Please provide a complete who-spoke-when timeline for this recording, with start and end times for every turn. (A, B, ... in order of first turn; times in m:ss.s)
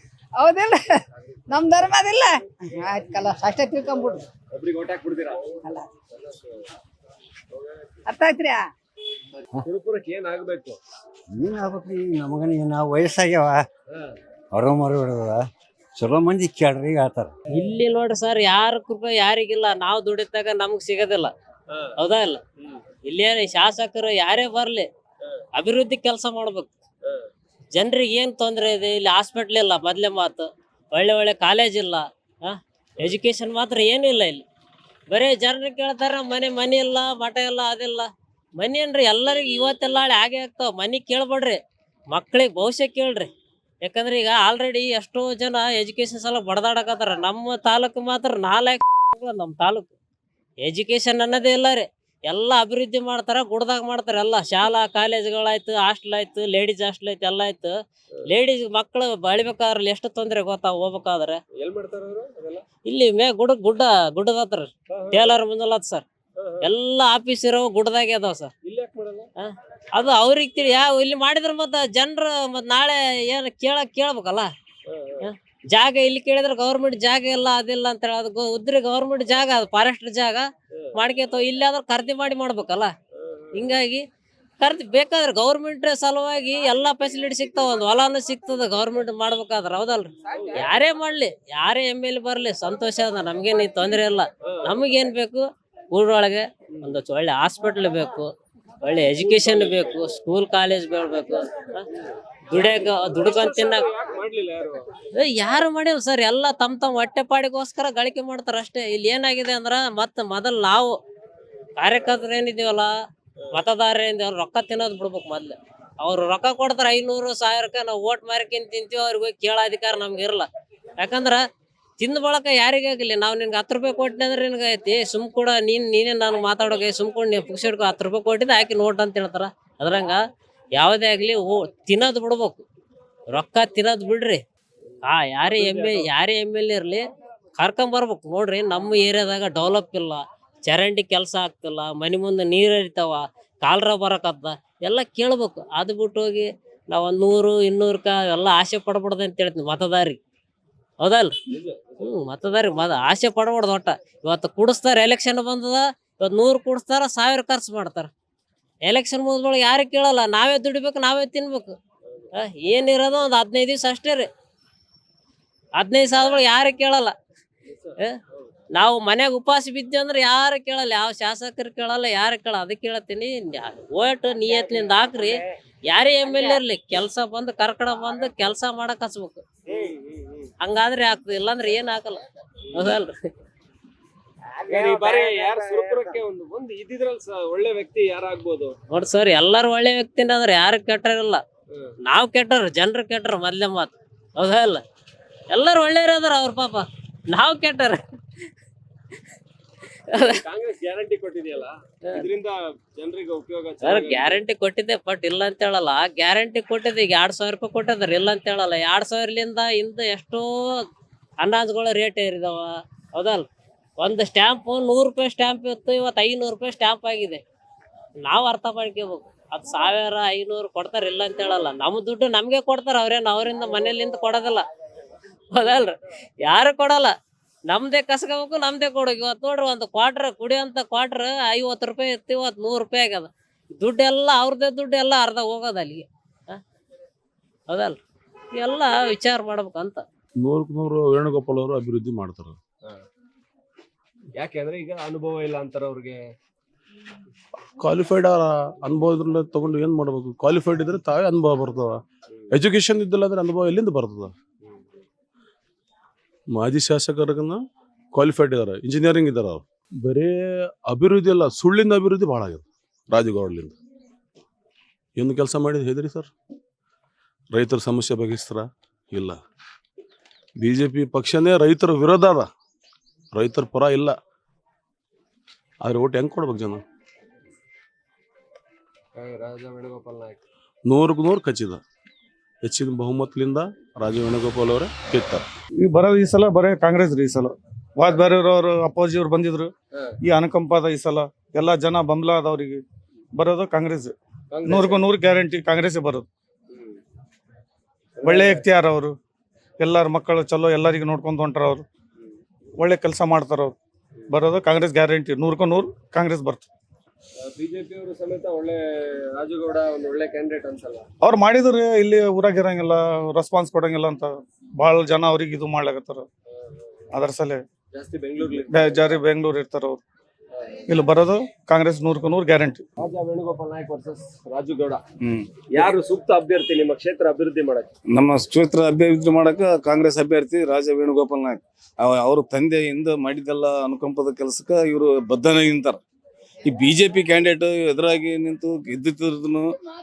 0:00.4-0:04.3 A
0:04.5-0:05.4 B
0:08.1-0:08.6 A
0:09.6-0:10.8 B
0:11.3-0:13.6 C
0:13.9-0:14.2 B
0:14.5-0:15.5 C
0:16.0-0:17.3 C
0:17.5-0:21.3 D
0:22.0-0:22.4 D
0:23.0-0:24.9 D
0:25.6-0:26.7 D
0:27.8-0:34.4 D
0:35.1-0:43.3 D
0:43.8-0:49.9 D
0:50.6-1:01.4 D
1:01.6-1:02.6 B
1:02.9-1:06.0 D
1:04.9-1:05.4 B
1:06.4-1:06.7 B
1:06.6-1:08.5 D
1:08.6-1:09.3 B
1:09.4-1:14.5 D
1:14.9-1:15.3 B
1:15.2-1:22.9 D
1:23.1-1:23.7 B
1:23.5-1:24.0 D
1:24.6-1:38.3 D
1:30.3-1:30.7 B
1:34.4-1:34.7 B
1:38.8-1:41.8 D
1:39.2-1:40.0 B
1:42.5-1:43.9 D
1:42.5-1:44.9 B
1:45.2-1:51.0 D
1:51.8-1:52.9 D
1:53.5-2:00.5 D
2:01.0-2:01.4 D
2:02.0-2:10.2 D
2:10.8-2:12.6 D
2:13.3-2:14.4 D
2:15.0-2:17.1 D
2:15.6-2:16.1 B
2:17.6-2:30.2 D
2:31.0-2:31.4 D
2:31.5-2:32.2 B
2:32.0-2:38.1 D
2:38.9-2:41.8 D
2:42.3-2:44.3 D
2:45.8-2:47.2 D
2:47.7-2:48.5 B
2:48.8-2:59.4 D
2:59.7-3:00.5 B
3:00.6-3:02.2 D
3:02.7-3:03.3 D
3:04.7-3:08.8 B
3:08.9-3:11.4 D
3:12.0-3:14.8 D
3:15.5-3:18.0 D
3:20.1-3:20.4 D
3:20.4-3:24.4 B
3:23.8-3:30.9 D
3:31.4-3:33.5 D
3:34.0-3:37.4 D
3:38.2-3:44.7 D
3:45.5-3:47.2 D
3:47.7-3:56.6 D
3:57.7-3:58.0 D
3:58.6-4:00.0 D
4:00.4-4:02.6 E
4:04.4-4:06.3 B
4:07.8-4:12.0 E
4:12.5-4:14.3 E
4:14.6-4:15.0 B
4:16.5-4:17.6 E
4:18.1-4:23.7 E
4:25.2-4:26.3 E
4:27.5-4:29.4 E
4:30.6-4:32.5 E
4:33.3-4:34.2 E
4:35.8-4:36.8 E
4:39.2-4:40.4 B
4:40.9-4:41.8 E
4:42.6-4:45.4 E
4:45.8-4:49.7 F
4:50.2-4:52.8 F
4:53.4-4:54.1 F
4:54.5-4:55.1 B
4:54.6-4:56.3 F
4:56.7-4:57.0 B
4:58.2-4:58.6 B
4:58.2-4:59.2 F
4:59.8-5:01.8 F
5:02.8-5:03.8 F
5:04.3-5:06.7 F
5:07.4-5:11.1 B
5:11.2-5:16.3 F
5:17.1-5:17.6 F
5:17.9-5:19.1 B
5:18.7-5:20.0 F
5:20.9-5:22.8 F
5:23.0-5:25.0 B
5:25.7-5:27.9 B
5:28.1-5:36.0 G
5:36.7-5:39.7 G